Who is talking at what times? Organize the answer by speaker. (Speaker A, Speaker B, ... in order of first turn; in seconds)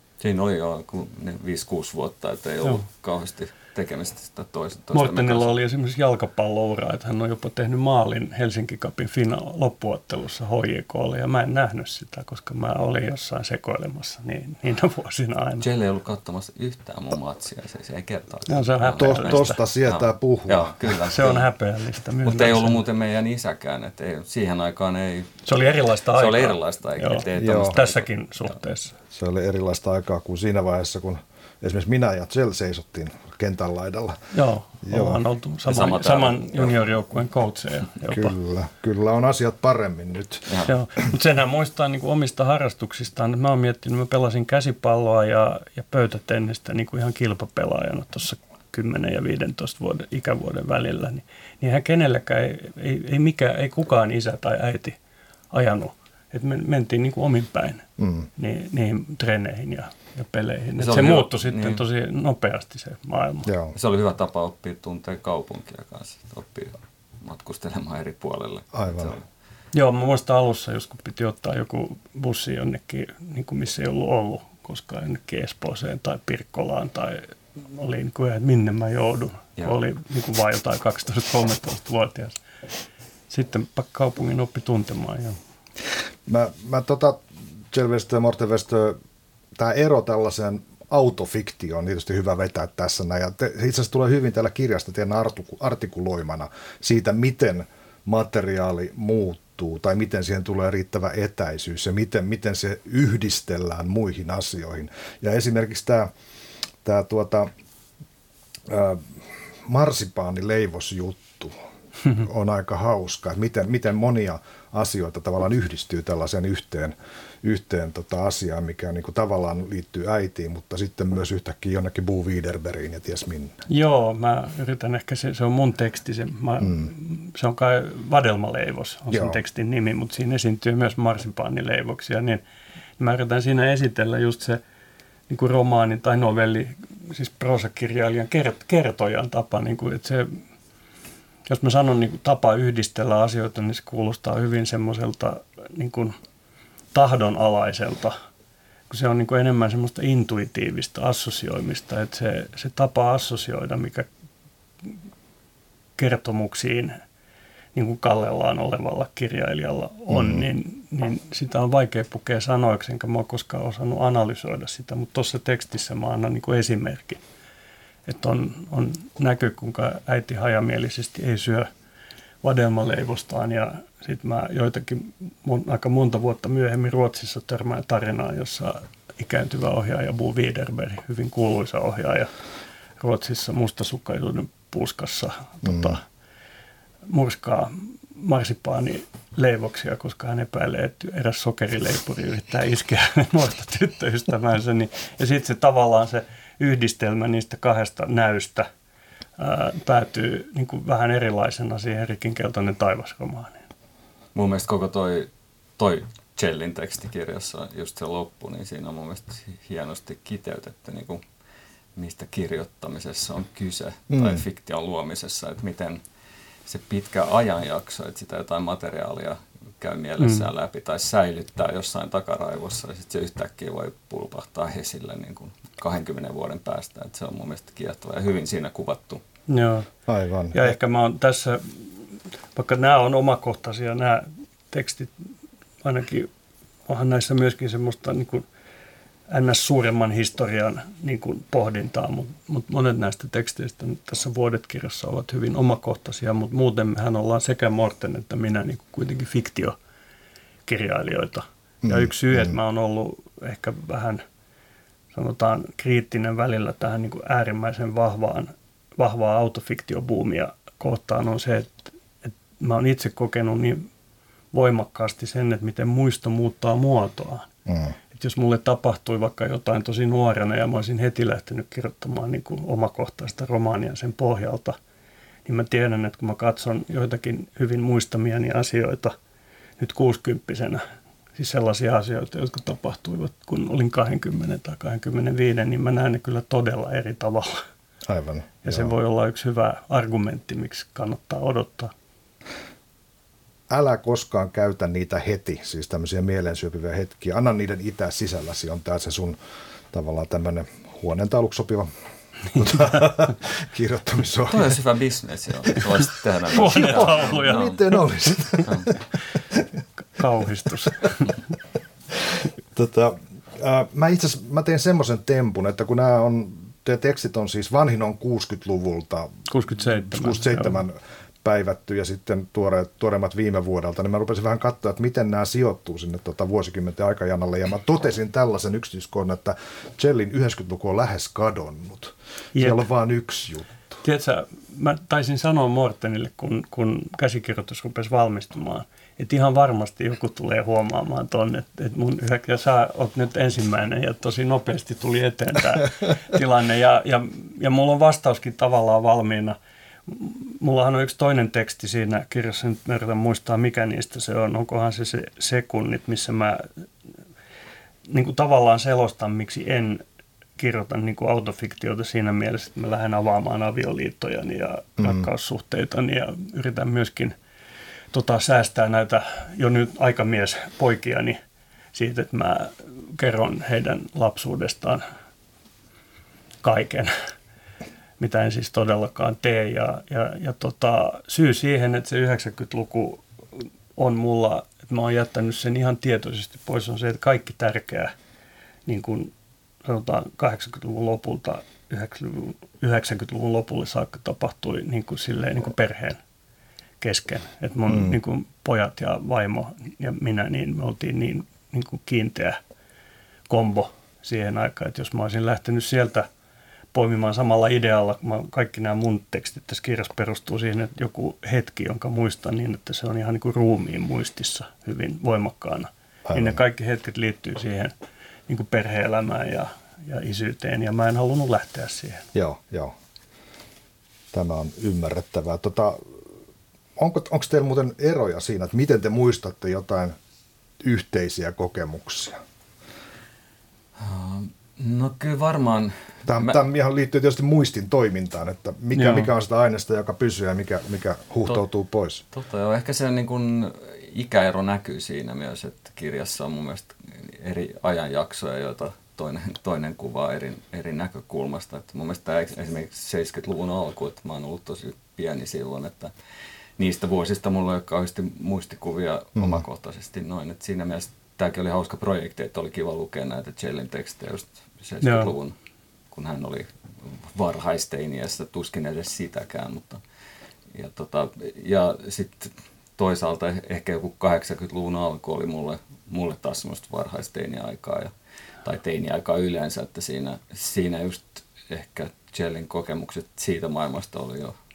Speaker A: 0.2-5.6, 15.6-21.4, 22.2-25.5, 26.1-28.1, 35.7-36.8, 60.8-61.8, 63.8-69.2, 204.3-211.2, 211.9-216.0, 216.7-229.2, 304.5-307.8, 308.7-308.9, 434.0-436.6, 442.3-456.1, 456.8-465.6, 466.1-470.0, 470.7-478.1, 478.6-484.6
Speaker B: 4.9-15.7, 18.5-19.6, 21.1-22.8, 25.5-28.9, 34.3-38.4, 40.7-55.0, 55.5-63.5, 69.7-82.4, 83.3-85.4, 123.7-132.4, 133.0-134.6, 135.3-140.4, 141.5-146.2, 146.9-148.2, 148.9-154.1, 156.0-157.0, 157.8-167.2, 168.1-171.7, 172.4-182.3, 183.0-186.0, 187.1-198.7, 199.4-203.6, 220.2-220.5, 229.5-229.9, 230.5-235.2, 235.8-236.3, 236.9-238.5, 239.3-249.8, 250.7-254.2, 255.1-263.9, 264.5-267.5, 268.1-274.8, 275.5-279.1, 279.8-280.8, 281.4-287.6, 288.6-291.9, 306.5-308.0, 310.1-311.4, 319.5-320.8, 332.6-332.8, 334.0-356.9, 358.1-360.0, 360.6-367.4, 368.1-371.4, 371.9-375.1, 376.6-377.1, 378.2-388.1, 388.9-389.3, 389.8-396.2, 397.0-402.6, 403.5-406.3, 406.9-417.9, 418.5-422.3, 438.9-439.3, 465.0-465.3
Speaker C: 19.0-20.8, 27.4-27.8, 29.1-34.2, 34.8-35.2, 38.1-40.7, 58.0-58.3, 63.5-63.8, 68.7-69.2, 86.3-89.0, 89.6-106.1, 106.8-107.5, 108.7-111.6, 112.1-123.6, 129.1-129.4, 160.1-160.4, 185.6-186.0, 214.1-214.4, 230.1-230.8, 251.8-252.6, 267.7-267.9, 288.1-288.9, 293.7-299.4, 299.9-301.9, 302.5-304.8, 306.8-308.9, 312.2-334.0, 365.0-365.3, 397.9-398.2, 416.3-416.6, 422.3-422.9, 424.3-426.2, 427.0-430.2, 430.8-432.4, 436.3-442.2, 459.4-459.6